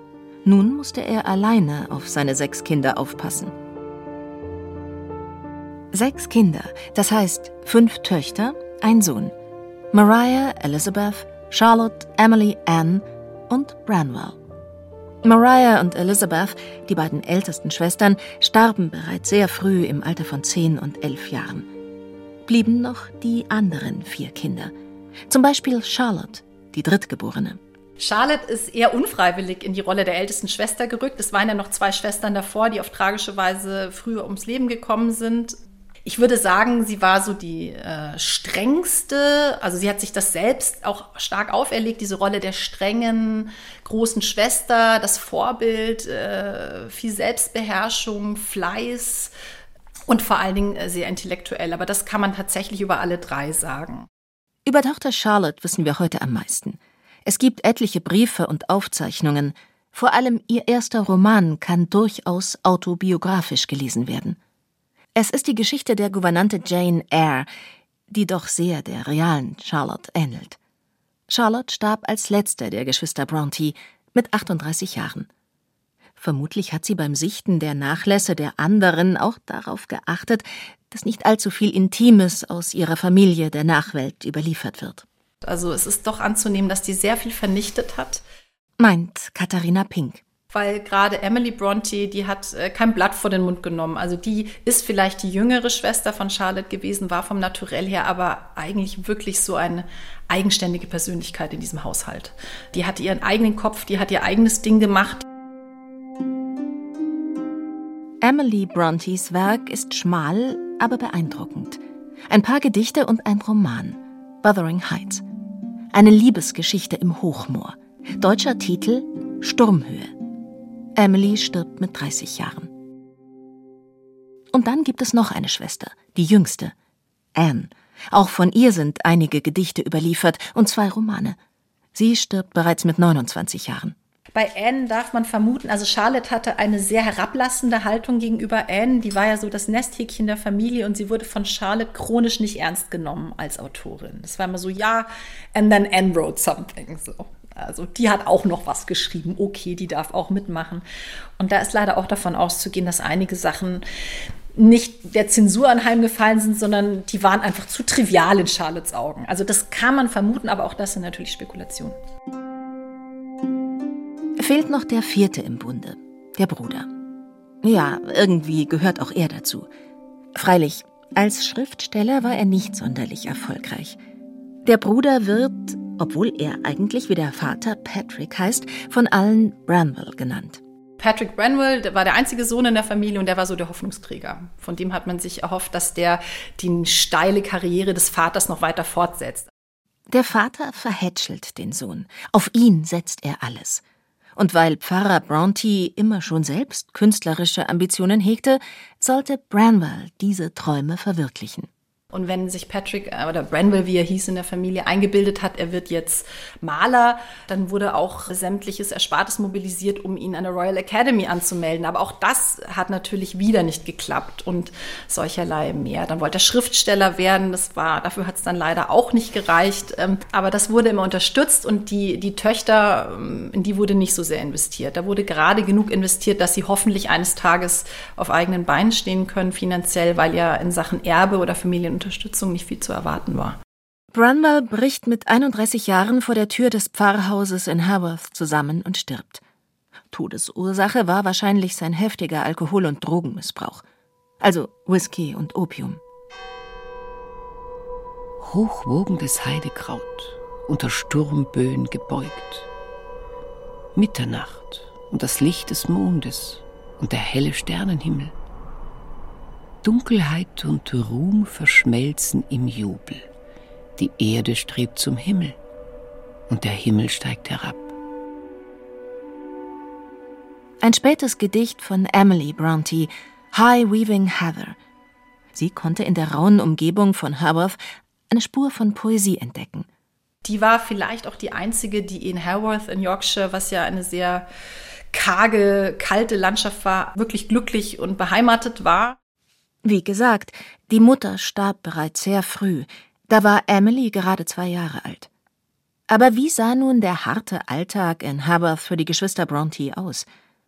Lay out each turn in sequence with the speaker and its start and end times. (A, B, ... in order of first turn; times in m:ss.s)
0:00.4-0:03.5 A
0:05.9-0:09.3 A
0:09.9-0:14.4 A
0:15.2-0:21.7 A
0:22.5-0:24.7 A
0:25.3-0:27.6 A
0:28.0-0:49.3 B
0:50.1-0:54.1 B
0:54.7-1:04.4 A
1:05.2-1:07.5 A
1:08.1-1:10.6 A
1:11.3-1:15.3 A
1:16.2-1:25.0 A
1:25.4-1:28.2 B
1:28.8-1:30.2 A
1:30.5-1:45.2 B
1:48.2-1:55.2 A
1:55.9-2:00.1 A
2:01.0-2:02.7 A
2:04.5-2:06.7 A
2:07.4-2:11.4 A
2:12.0-2:14.0 A
2:14.4-2:30.8 B
2:31.4-2:33.8 B
2:34.6-2:42.0 B
2:44.4-2:46.9 A
2:47.6-2:49.7 A
2:50.4-2:54.0 A
2:54.6-3:00.6 A
3:01.0-3:09.5 B
3:10.1-3:13.8 A
3:14.4-3:21.7 A
3:22.1-3:53.6 B
3:54.1-3:59.4 A
4:00.1-4:03.8 A
4:04.4-4:06.0 A
4:08.4-4:12.7 C
4:14.0-4:18.3 C
4:19.8-4:23.2 C
4:24.0-4:25.6 C
4:26.5-4:27.9 C
4:30.8-4:34.8 A
4:35.5-4:37.8 A
4:38.3-4:39.9 A
4:40.4-4:44.5 B
4:45.1-4:49.2 B
4:49.8-4:55.3 A
4:56.1-5:00.3 A